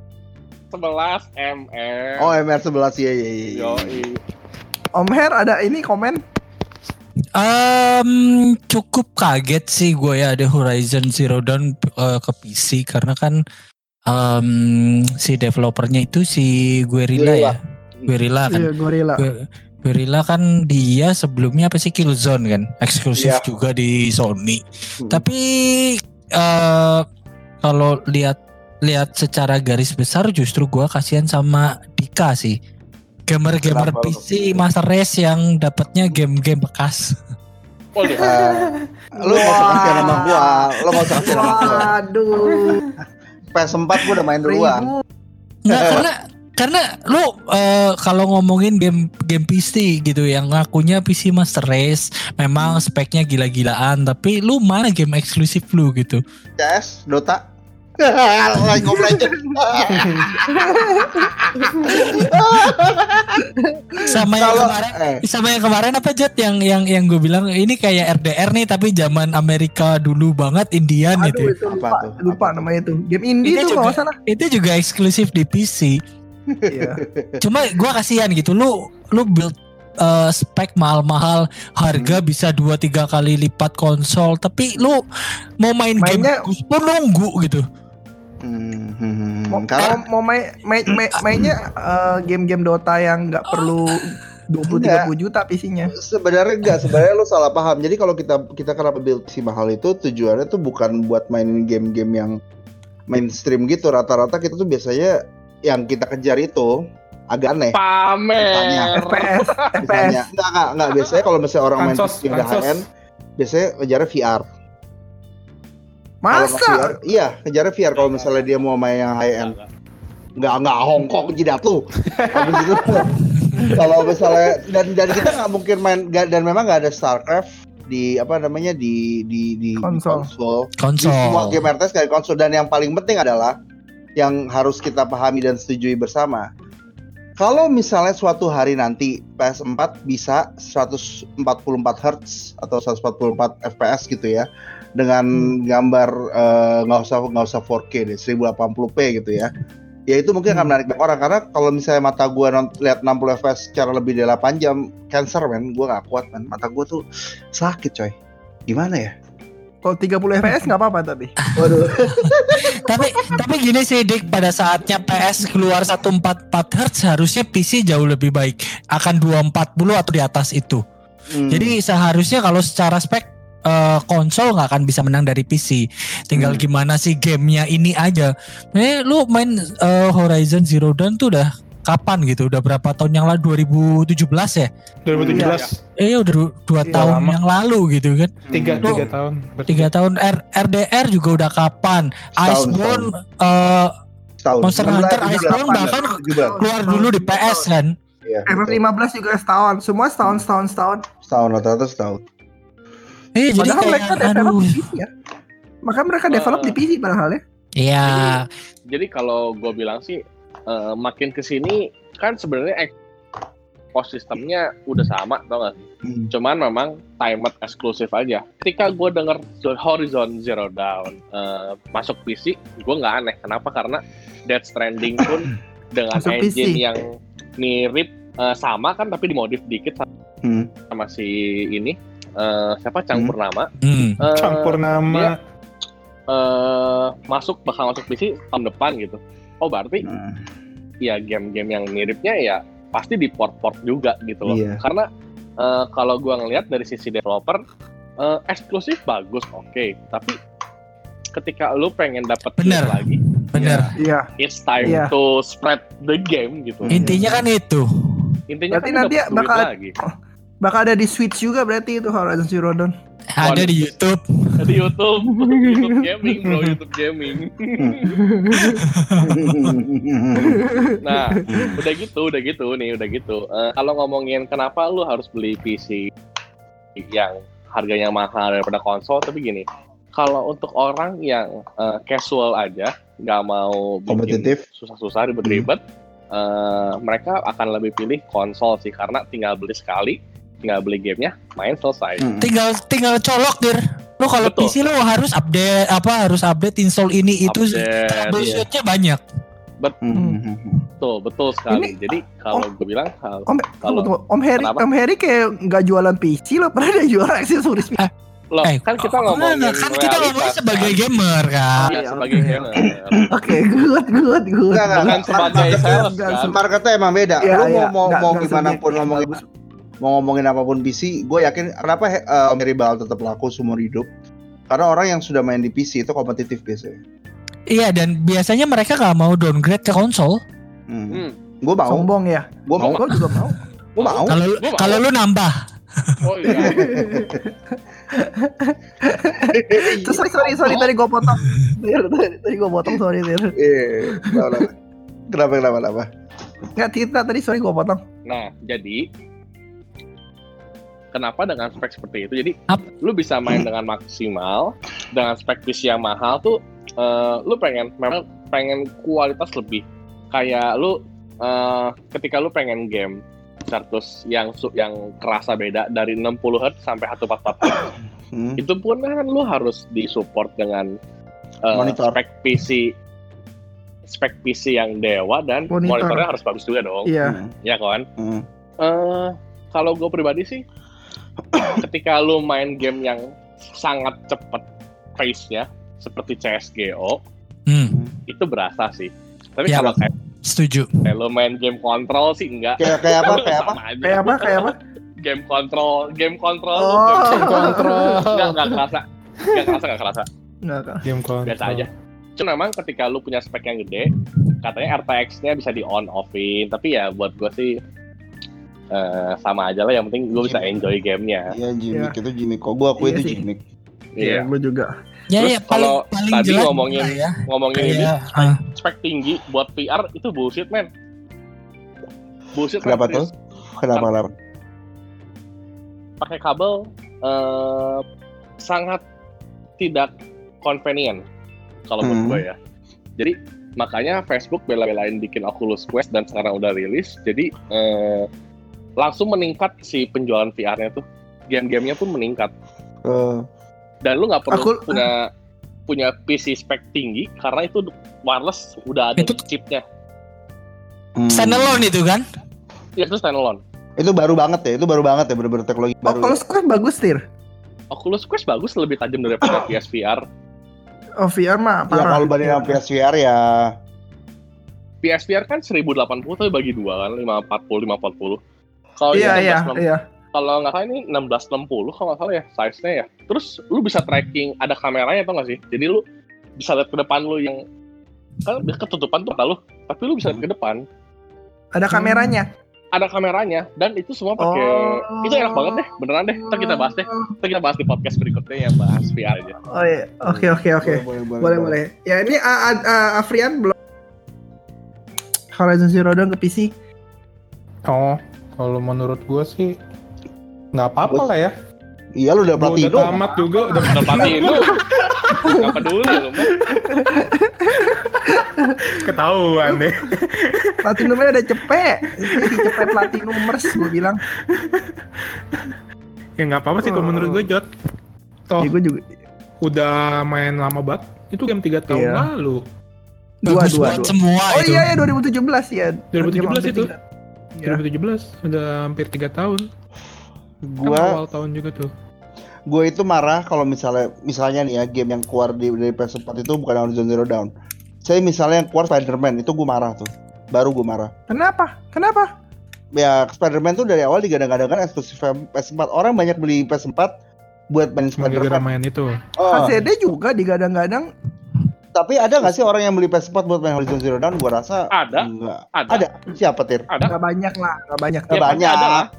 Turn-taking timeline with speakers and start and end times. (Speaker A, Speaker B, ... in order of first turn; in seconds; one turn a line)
Speaker A: 0.7-2.3
Speaker B: 2.2-4.0
Speaker A: 3.5-4.2
Speaker C: 5.0-6.2
Speaker D: 7.4-13.4
Speaker D: 14.1-27.1
Speaker B: 17.1-18.1
Speaker C: 18.5-19.2
Speaker B: 23.1-23.4
Speaker B: 25.0-25.2
Speaker D: 27.6-32.6
Speaker D: 33.3-37.1
Speaker B: 33.6-34.6
Speaker A: 38.0-38.2
Speaker C: 38.1-38.7
Speaker B: 38.1-41.9
Speaker C: 39.2-42.9
Speaker D: 40.9-41.8
Speaker E: 42.5-42.8
Speaker B: 43.5-44.9
Speaker C: 44.4-45.0
Speaker D: 45.6-56.2
Speaker B: 45.7-46.1
Speaker B: 52.6-52.9
Speaker B: 56.6-57.4
Speaker B: 58.0-63.5
Speaker C: 58.9-59.5
Speaker E: 59.9-60.3
Speaker C: 60.5-62.3
Speaker C: 63.4-64.2
Speaker D: 64.1-71.5
Speaker B: 64.4-65.2
Speaker C: 71.2-74.2
Speaker B: 71.7-72.7
Speaker D: 73.4-76.0
Speaker B: 76.5-77.4
Speaker C: 76.7-77.0
Speaker D: 77.4-85.0
Speaker B: 81.9-82.2
Speaker D: 85.6-87.6
Speaker C: 86.0-86.5
Speaker B: 88.4-90.0
Speaker C: 89.5-95.9
Speaker B: 94.7-95.1
Speaker B: 95.9-102.3
Speaker B: 103.1-105.1
Speaker B: 105.7-106.7
Speaker B: 107.3-107.8
Speaker A: 107.7-109.7
Speaker B: 108.4-109.0
Speaker C: 109.0-110.2
Speaker B: 109.8-112.8
Speaker E: 111.8-112.8
Speaker B: 113.4-114.4
Speaker C: 116.2-117.0
Speaker B: 116.3-119.5
Speaker A: 117.9-118.7
Speaker A: 119.4-119.7
Speaker B: 120.4-123.1
Speaker E: 122.0-123.0
Speaker D: 123.4-123.7
Speaker B: 123.7-133.5
Speaker C: 129.8-130.3
Speaker D: 130.8-131.6
Speaker B: 134.2-136.5
Speaker B: 137.4-149.5
Speaker B: 150.1-157.0
Speaker C: 150.5-150.7
Speaker B: 157.5-158.1
Speaker B: 158.7-159.1
Speaker C: 159.8-161.3
Speaker B: 161.6-162.6
Speaker D: 162.2-170.8
Speaker C: 162.5-163.4
Speaker B: 171.3-171.7
Speaker D: 171.5-184.7
Speaker B: 176.3-176.6
Speaker E: 185.0-185.7
Speaker B: 185.1-185.5
Speaker C: 185.3-185.6
Speaker A: 185.3-185.7
Speaker D: 186.0-189.0
Speaker C: 186.8-187.1
Speaker E: 186.9-187.4
Speaker E: 188.5-189.9
Speaker B: 188.5-189.1
Speaker D: 189.7-193.9
Speaker B: 192.4-193.1
Speaker B: 194.4-196.6
Speaker D: 194.6-197.9
Speaker C: 195.0-197.7
Speaker B: 198.2-198.8
Speaker C: 198.5-201.0
Speaker B: 201.2-202.2
Speaker D: 203.3-204.8
Speaker C: 203.6-205.1
Speaker C: 205.8-207.4
Speaker A: 206.3-206.8
Speaker D: 207.8-208.4
Speaker A: 208.0-208.4
Speaker A: 208.9-212.9
Speaker A: 213.9-230.1
Speaker B: 216.0-216.3
Speaker C: 226.2-226.8
Speaker B: 230.4-230.7
Speaker A: 230.9-235.3
Speaker D: 233.8-234.2
Speaker E: 234.3-235.3
Speaker A: 236.3-240.1
Speaker B: 240.0-240.4
Speaker A: 241.0-245.1
Speaker B: 244.4-244.8
Speaker A: 245.6-247.6
Speaker A: 248.2-250.3
Speaker A: 251.3-257.0
Speaker D: 252.6-253.9
Speaker C: 254.0-254.3
Speaker C: 254.8-255.1
Speaker B: 256.8-257.2
Speaker D: 256.9-258.4
Speaker C: 257.0-257.4
Speaker A: 258.5-259.9
Speaker C: 258.7-260.1
Speaker C: 260.6-262.9
Speaker D: 263.4-264.2
Speaker A: 263.4-263.9
Speaker A: 264.6-268.1
Speaker C: 265.3-265.8
Speaker C: 268.0-269.4
Speaker D: 268.8-269.2
Speaker B: 269.2-270.6
Speaker C: 270.3-271.8
Speaker A: 271.0-276.1
Speaker B: 271.5-271.8
Speaker A: 277.0-279.6
Speaker A: 280.2-285.8
Speaker B: 284.1-284.6
Speaker A: 286.3-292.2
Speaker B: 292.2-292.5
Speaker D: 292.4-299.2
Speaker A: 294.4-294.7
Speaker A: 297.4-298.5
Speaker B: 298.4-298.6
Speaker B: 300.0-300.8
Speaker C: 300.1-300.4
Speaker A: 301.0-304.8
Speaker C: 301.7-302.0
Speaker C: 303.5-308.0
Speaker A: 308.5-311.0
Speaker D: 308.6-311.9
Speaker C: 311.8-316.6
Speaker A: 311.9-313.3
Speaker B: 314.7-319.4
Speaker A: 315.1-316.6
Speaker C: 317.4-319.4
Speaker B: 320.0-324.1
Speaker B: 324.7-327.0
Speaker D: 327.7-330.4
Speaker B: 330.9-332.1
Speaker C: 331.9-333.6
Speaker B: 332.6-333.0
Speaker A: 334.0-335.0
Speaker B: 334.0-334.4
Speaker D: 334.3-335.5
Speaker A: 336.2-336.8
Speaker C: 336.5-337.5
Speaker B: 336.5-337.4
Speaker C: 338.1-343.5
Speaker B: 339.5-340.9
Speaker B: 343.6-344.7
Speaker C: 344.1-344.7
Speaker B: 345.3-346.1
Speaker C: 346.8-348.0
Speaker A: 348.2-349.1
Speaker A: 351.1-367.9
Speaker B: 368.3-368.6
Speaker A: 368.6-370.9
Speaker A: 371.7-372.9
Speaker B: 371.7-372.2
Speaker A: 374.1-377.1
Speaker C: 375.7-376.2
Speaker C: 377.1-377.4
Speaker B: 377.2-377.5
Speaker A: 377.6-378.1
Speaker B: 378.2-378.4
Speaker A: 378.8-380.6
Speaker B: 381.5-381.8
Speaker A: 381.8-383.2
Speaker A: 383.8-384.6
Speaker A: 385.2-387.2
Speaker D: 387.7-387.9
Speaker B: 387.9-388.1
Speaker A: 388.3-390.1
Speaker D: 389.7-391.0
Speaker A: 391.0-400.3
Speaker B: 392.8-393.8
Speaker C: 394.0-394.7
Speaker C: 396.7-398.2
Speaker E: 397.3-398.6
Speaker C: 400.6-401.0
Speaker E: 401.0-401.9
Speaker A: 401.4-404.1
Speaker A: 404.6-407.8
Speaker A: 408.9-411.5
Speaker B: 410.3-410.8
Speaker B: 411.5-413.6
Speaker C: 413.0-413.4
Speaker A: 414.1-414.5
Speaker C: 414.2-414.9
Speaker D: 415.3-418.6
Speaker A: 415.4-420.9
Speaker A: 422.5-423.3
Speaker B: 422.8-424.3
Speaker A: 426.2-428.0
Speaker A: 428.6-429.0
Speaker A: 429.8-430.1
Speaker A: 430.6-431.2
Speaker A: 431.9-432.6
Speaker B: 432.0-432.4
Speaker A: 433.2-438.3
Speaker A: 439.0-442.5
Speaker B: 443.0-443.4
Speaker A: 444.0-445.3
Speaker C: 444.5-445.1
Speaker A: 445.9-449.8
Speaker B: 451.1-451.9
Speaker D: 451.3-452.2
Speaker A: 453.0-453.6
Speaker B: 454.0-456.4
Speaker C: 456.1-457.2
Speaker A: 457.9-460.2
Speaker C: 461.2-462.8
Speaker B: 461.9-463.7
Speaker A: 465.0-468.4
Speaker A: 469.0-476.0
Speaker C: 469.1-470.0
Speaker A: 476.6-477.6
Speaker A: 478.4-480.8
Speaker C: 481.7-482.5
Speaker A: 482.9-489.6
Speaker C: 484.4-485.8
Speaker C: 486.4-487.3
Speaker C: 489.7-493.7
Speaker B: 490.2-491.8
Speaker C: 495.5-496.7
Speaker E: 497.9-499.8
Speaker E: 500.7-501.5
Speaker B: 502.2-503.2
Speaker E: 502.5-505.6
Speaker C: 503.1-504.8
Speaker A: 503.8-504.8
Speaker A: 505.4-506.5
Speaker C: 505.4-505.8
Speaker E: 506.5-506.8
Speaker C: 506.7-508.8
Speaker E: 507.8-511.2
Speaker C: 510.8-514.2
Speaker E: 512.1-515.8
Speaker E: 516.4-517.7
Speaker C: 516.8-517.5
Speaker C: 518.6-519.2
Speaker E: 519.6-522.6
Speaker C: 521.9-522.3
Speaker C: 523.4-526.9
Speaker D: 523.5-525.0
Speaker E: 526.1-526.9
Speaker E: 527.6-529.7
Speaker B: 530.6-531.2
Speaker E: 530.8-531.9
Speaker B: 532.7-537.5
Speaker B: 538.0-541.1
Speaker C: 541.3-542.3
Speaker B: 543.0-547.1
Speaker B: 547.7-548.6
Speaker E: 548.2-549.2
Speaker B: 549.4-549.8
Speaker C: 549.5-551.1
Speaker B: 551.9-556.9
Speaker A: 554.9-556.0
Speaker C: 557.1-558.6
Speaker A: 558.3-559.1
Speaker B: 558.3-559.0